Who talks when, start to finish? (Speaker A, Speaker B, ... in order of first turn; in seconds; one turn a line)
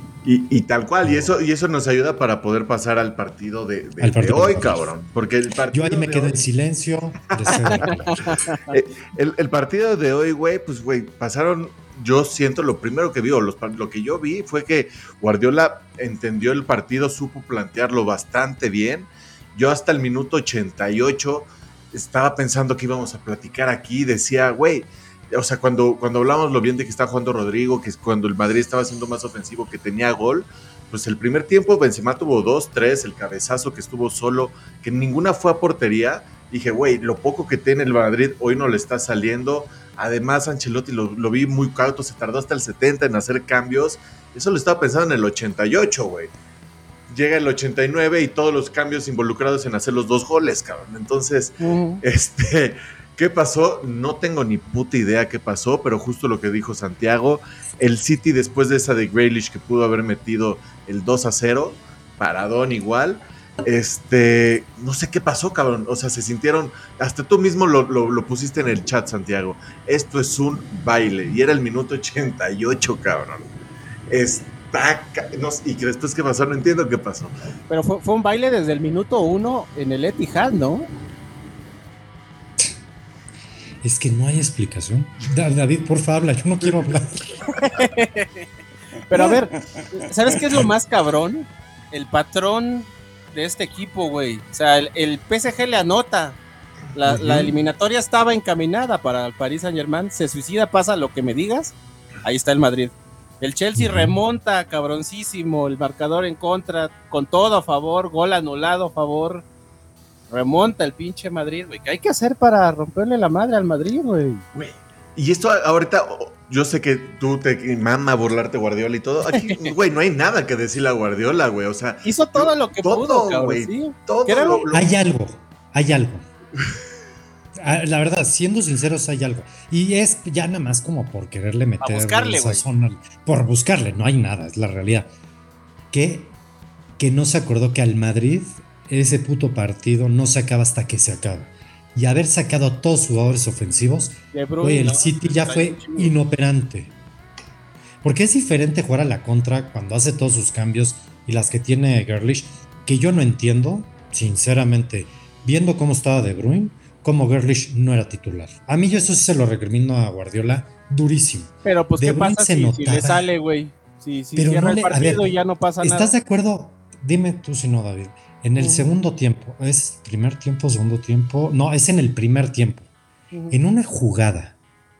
Speaker A: 0.2-6.4
Speaker B: 1.0-1.3
Speaker B: 4.0-4.9
Speaker B: 5.7-8.2
Speaker A: 7.3-7.9
Speaker C: 7.5-8.8
Speaker A: 8.7-46.3
Speaker A: 47.1-73.5
Speaker C: 51.6-52.0
Speaker A: 74.1-77.3
Speaker C: 77.7-80.8
Speaker B: 83.8-87.4
Speaker C: 87.5-88.5
Speaker C: 89.1-96.4
Speaker B: 89.1-89.4
Speaker B: 90.3-90.7
Speaker C: 96.9-109.4
Speaker B: 97.0-97.5
Speaker B: 103.8-104.1
Speaker C: 110.3-114.4
Speaker A: 114.5-124.9
Speaker C: 119.3-119.7
Speaker C: 122.0-124.7
Speaker B: 124.7-126.2
Speaker B: 127.5-135.1
Speaker C: 131.8-132.6
Speaker B: 135.9-136.3
Speaker B: 137.0-146.9
Speaker C: 144.3-146.1
Speaker B: 148.0-163.3
Speaker C: 161.6-166.1
Speaker B: 164.3-165.3
Speaker B: 165.8-172.9
Speaker C: 168.6-168.9
Speaker C: 173.3-173.6
Speaker B: 173.5-174.5